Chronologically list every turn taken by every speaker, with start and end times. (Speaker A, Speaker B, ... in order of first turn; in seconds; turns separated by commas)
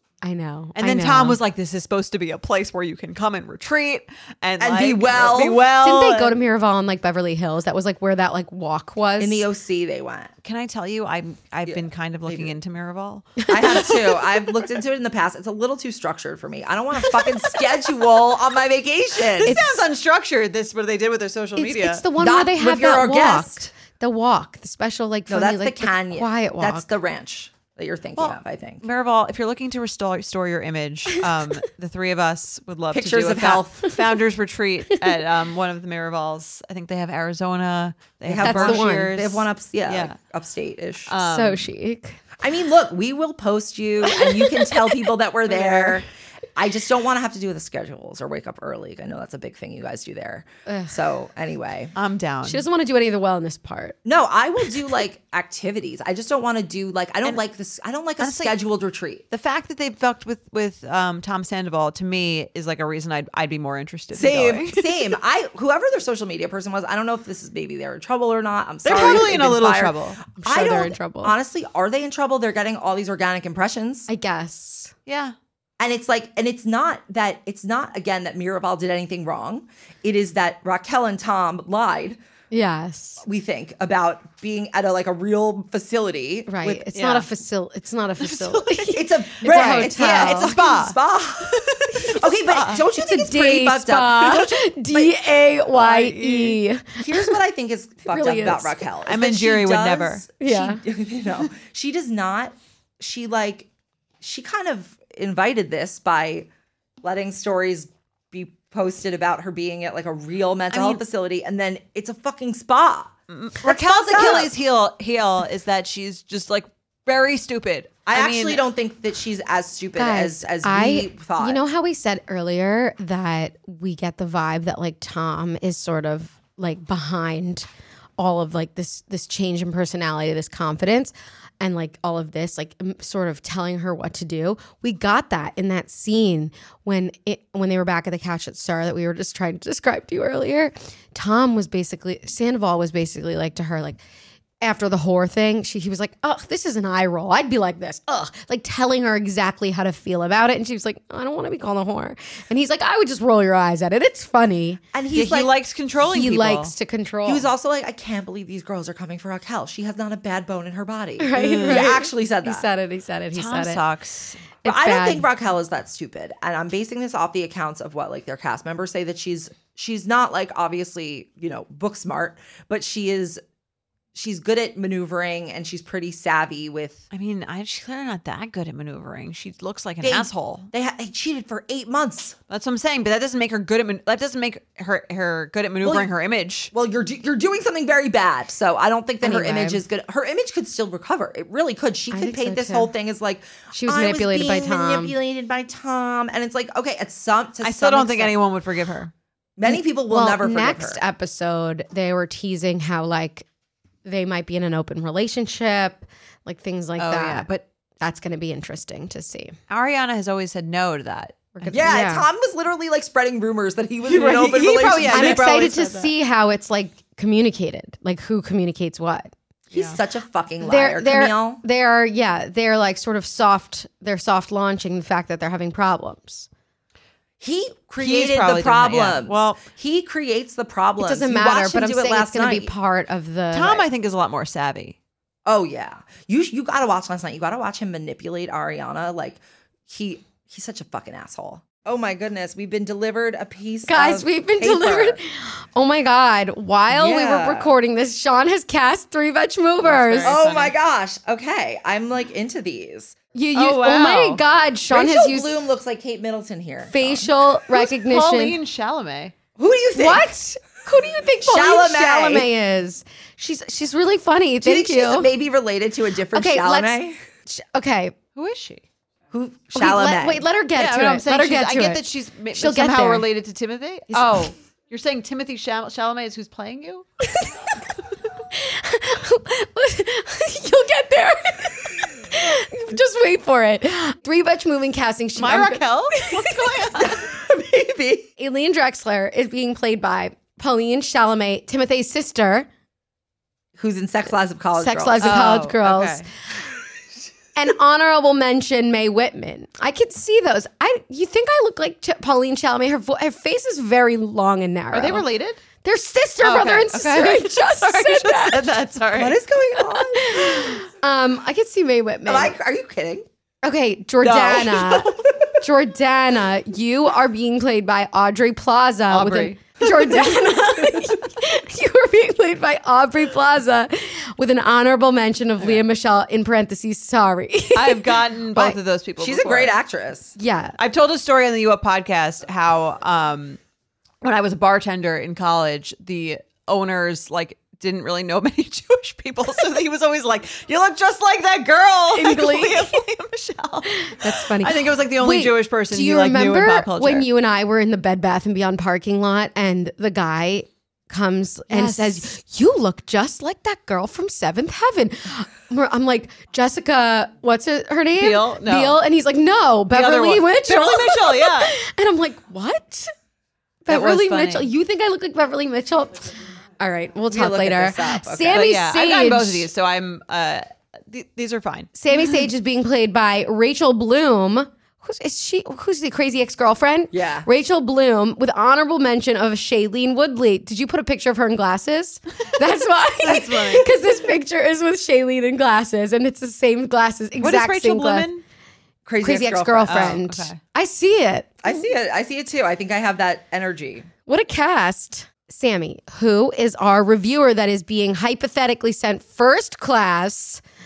Speaker A: 0.2-1.4, Speaker B: 0.8-6.4, Speaker C: 4.6-5.6, Speaker A: 5.8-9.5, Speaker C: 9.2-10.3, Speaker B: 10.4-13.5, Speaker C: 11.7-12.5, Speaker A: 13.4-14.2, Speaker C: 13.5-19.6, Speaker B: 19.4-22.0, Speaker A: 19.4-19.8, Speaker A: 21.6-26.9, Speaker C: 22.2-23.7, Speaker C: 25.3-28.8, Speaker B: 28.2-40.1, Speaker C: 32.9-33.9, Speaker C: 38.3-41.1, Speaker A: 38.4-39.1, Speaker B: 41.1-41.7, Speaker A: 41.2-42.2, Speaker C: 42.4-51.9, Speaker A: 44.1-45.0, Speaker A: 45.5-46.0, Speaker A: 50.7-51.0, Speaker B: 52.0-52.6, Speaker A: 52.4-54.0, Speaker C: 54.0-59.2, Speaker B: 58.2-58.6, Speaker B: 59.3-65.1, Speaker C: 64.1-74.1, Speaker B: 68.8-70.2, Speaker A: 70.4-71.3, Speaker A: 74.1-74.9, Speaker B: 75.1-75.3, Speaker C: 75.8-82.2, Speaker A: 82.5-83.2, Speaker C: 83.2-86.9, Speaker A: 86.5-90.5, Speaker B: 86.9-87.3, Speaker B: 88.2-92.8, Speaker C: 88.9-95.1, Speaker A: 93.0-97.3, Speaker B: 95.7-96.6, Speaker C: 97.0-103.7, Speaker A: 98.1-98.8, Speaker B: 99.1-100.3, Speaker A: 100.4-100.8, Speaker C: 104.2-106.5, Speaker C: 107.0-114.5, Speaker B: 110.7-111.0, Speaker B: 113.3-118.6, Speaker C: 118.1-121.6, Speaker A: 120.0-127.7, Speaker A: 128.2-144.0, Speaker A: 144.6-154.8, Speaker C: 154.9-155.5, Speaker B: 155.1-156.7, Speaker A: 156.1-157.5, Speaker C: 157.2-162.7, Speaker A: 161.2-163.8, Speaker B: 161.4-161.9, Speaker B: 163.3-164.4, Speaker A: 164.6-165.3, Speaker C: 164.6-173.4, Speaker C: 174.1-177.0, Speaker B: 177.1-180.7, Speaker C: 180.0-182.4, Speaker B: 182.5-186.7, Speaker C: 185.8-186.1, Speaker C: 186.7-198.3, Speaker A: 189.2-189.8, Speaker A: 192.1-192.9, Speaker A: 193.7-195.1, Speaker B: 197.6-199.1, Speaker C: 199.6-201.0, Speaker A: 199.7-203.5, Speaker A: 204.1-207.5, Speaker B: 207.0-207.6, Speaker A: 208.0-209.6, Speaker B: 209.7-211.5, Speaker A: 211.5-212.3, Speaker C: 211.7-215.5, Speaker B: 214.1-216.1, Speaker A: 215.1-219.3, Speaker C: 219.7-221.6, Speaker A: 220.6-226.5, Speaker C: 227.4-232.7, Speaker B: 228.0-229.6, Speaker A: 231.0-233.9, Speaker B: 233.5-235.0, Speaker C: 235.5-245.2, Speaker A: 243.9-250.4, Speaker C: 246.9-247.8, Speaker B: 249.8-250.7, Speaker C: 250.2-253.2, Speaker A: 253.3-255.5, Speaker B: 253.6-254.4, Speaker C: 254.9-257.3, Speaker A: 256.9-258.6, Speaker B: 257.7-259.4, Speaker C: 259.6-260.3, Speaker A: 259.9-265.3, Speaker C: 261.4-262.5, Speaker C: 264.6-267.2, Speaker A: 266.3-267.0, Speaker A: 267.5-268.2, Speaker B: 268.4-268.8, Speaker C: 269.3-270.4, Speaker A: 269.8-273.2, Speaker B: 270.8-277.1, Speaker A: 274.1-274.5, Speaker A: 278.5-287.0, Speaker B: 285.4-287.2, Speaker C: 287.0-288.3, Speaker A: 288.4-292.7, Speaker C: 293.8-295.3, Speaker A: 294.8-296.3, Speaker B: 295.2-296.3, Speaker A: 297.6-305.2, Speaker B: 304.9-305.6, Speaker A: 305.8-308.8, Speaker B: 306.4-309.4, Speaker C: 309.1-310.8, Speaker A: 309.8-312.6, Speaker C: 312.3-313.3, Speaker A: 313.6-328.8, Speaker C: 314.2-315.6, Speaker B: 319.1-319.6, Speaker B: 327.8-329.8, Speaker C: 329.2-330.4, Speaker A: 330.4-330.8, Speaker B: 330.8-333.6, Speaker B: 334.2-347.3, Speaker A: 342.1-343.0, Speaker A: 343.9-363.1, Speaker B: 351.7-352.3, Speaker B: 358.2-359.0, Speaker B: 359.9-361.8, Speaker A: 363.9-369.7, Speaker B: 363.9-364.7, Speaker C: 367.3-368.7, Speaker B: 368.5-371.9, Speaker A: 371.9-388.3, Speaker C: 377.1-377.5, Speaker B: 383.2-383.9, Speaker B: 387.4-388.4, Speaker C: 389.1-390.2, Speaker A: 389.2-391.6, Speaker B: 389.9-390.6, Speaker C: 391.6-394.1, Speaker A: 394.3-400.6